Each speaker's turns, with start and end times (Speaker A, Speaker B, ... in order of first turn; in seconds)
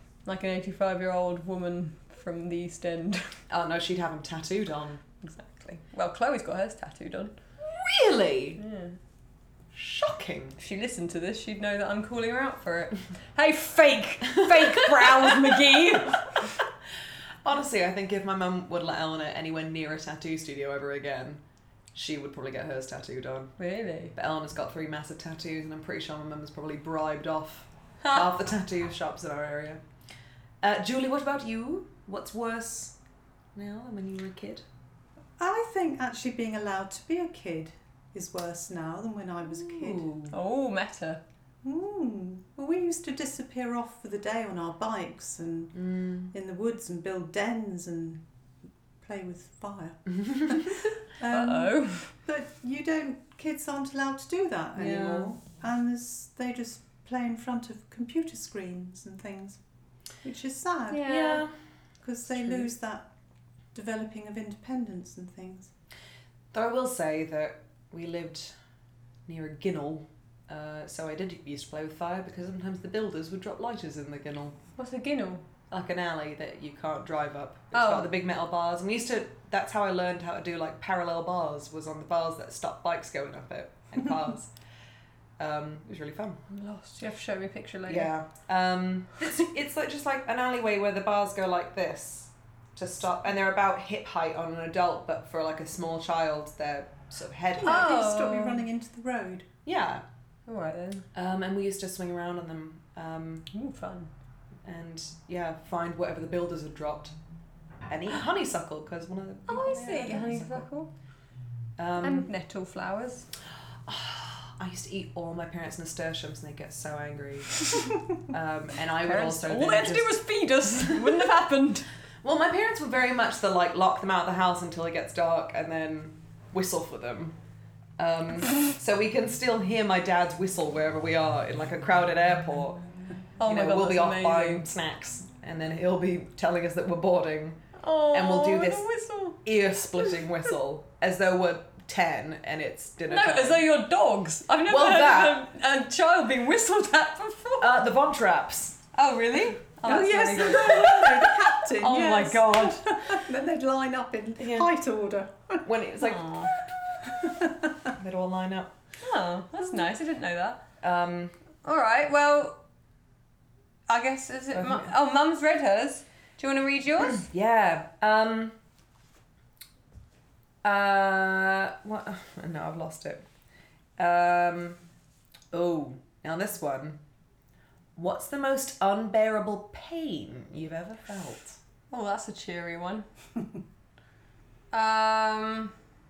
Speaker A: 0.2-3.3, 5.2-7.3, 8.6-9.0, 10.6-16.5, 23.6-24.1, 28.0-28.3, 40.3-41.2, 51.3-52.1, 60.9-61.4, 74.8-75.4, 77.7-78.1, 86.5-88.1, 97.6-98.6, 100.5-101.0, 103.5-104.1, 109.5-110.9, 112.0-113.3, 119.0-121.9, 133.4-134.7, 137.8-139.4, 143.1-147.7, 148.9-152.9, 156.0-156.5, 159.0-160.6, 161.6-162.6, 163.9-167.2, 181.9-183.1, 184.7-185.7
Speaker B: 3.5-5.0, 7.6-8.6, 9.7-10.6, 14.5-15.3, 17.4-21.4, 21.9-23.5, 24.1-29.8, 30.6-33.0, 33.5-34.6, 39.6-40.3, 45.8-46.3, 54.8-55.3, 61.0-61.5, 66.5-68.5, 69.3-74.6, 75.7-84.5, 85.4-86.4, 87.9-97.9, 99.6-100.0, 101.1-103.5, 104.6-107.1, 107.9-110.7, 111.8-112.3, 113.9-120.2, 120.7-121.3, 122.2-127.4, 128.0-132.8, 133.4-138.8, 139.4-143.7, 144.7-145.4, 147.6-148.8, 149.9-151.1, 154.4-154.7, 155.6-156.4, 157.9-158.7, 160.8-161.3, 164.5-164.9, 167.0-168.6, 170.6-173.2, 174.0-174.8, 175.5-177.0, 177.9-181.6
Speaker C: 35.4-40.1, 41.6-48.2, 49.0-59.6, 60.2-61.3, 62.0-63.1, 63.7-65.7, 97.5-99.5, 149.9-155.7, 157.0-157.9